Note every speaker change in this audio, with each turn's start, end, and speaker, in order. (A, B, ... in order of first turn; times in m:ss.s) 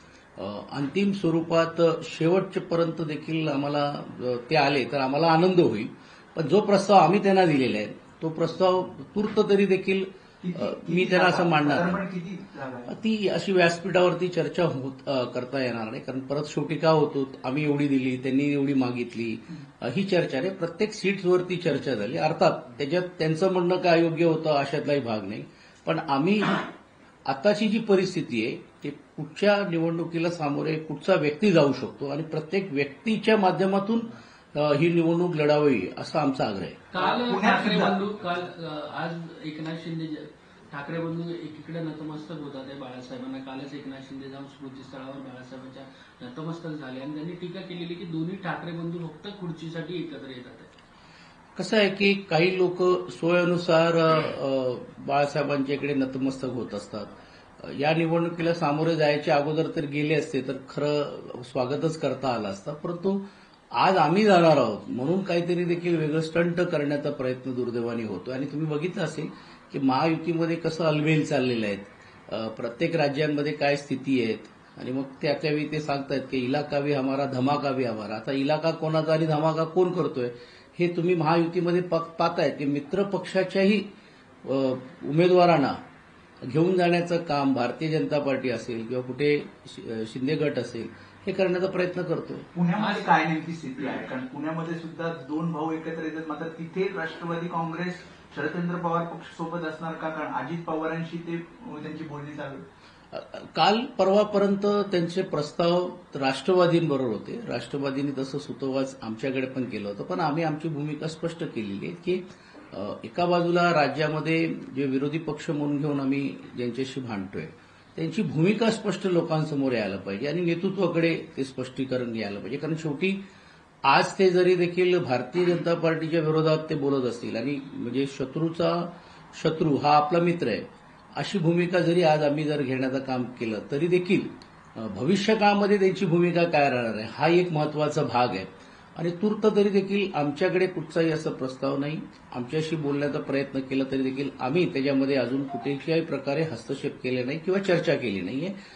0:00.4-0:12.0 A
0:10.4-0:12.9 B
0:12.9-0:26.6 A
0:27.2-0:36.8 A
0:36.9-0:50.7 C
0:37.0-0:38.0 B
0:51.6-1:23.9 A
1:24.4-1:25.8 A
1:26.4-1:32.5 A
1:32.5-1:42.6 B
1:32.7-1:33.1 C
1:43.1-2:03.2 A
2:03.8-2:28.5 A